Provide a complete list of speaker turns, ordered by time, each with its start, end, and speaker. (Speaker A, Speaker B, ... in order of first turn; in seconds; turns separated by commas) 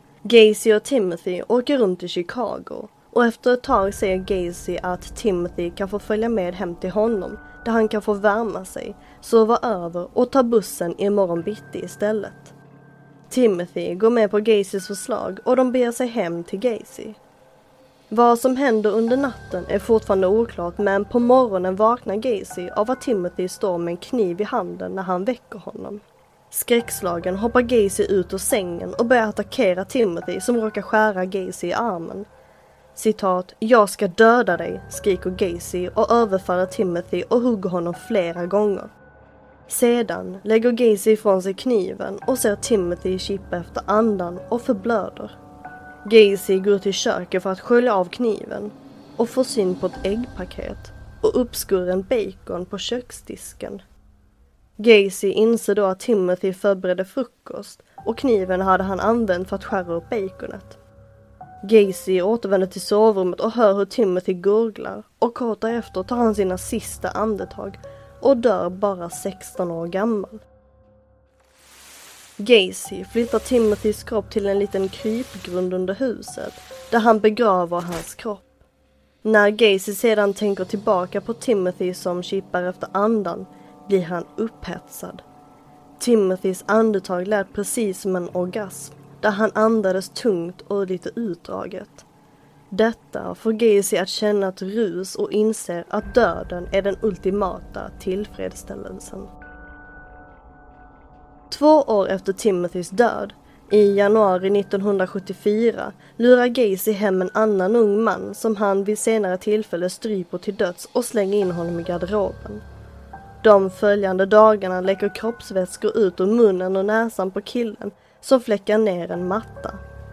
Speaker A: 0.2-12.5, Speaker A: 13.3-17.2, Speaker A: 18.1-32.3, Speaker A: 32.9-38.9, Speaker A: 39.7-45.3, Speaker A: 46.0-53.8, Speaker A: 54.8-60.8, Speaker A: 61.6-70.4, Speaker A: 72.4-78.5, Speaker A: 79.2-85.2, Speaker A: 86.0-92.0, Speaker A: 92.7-99.3, Speaker A: 101.5-112.6, Speaker A: 113.4-119.8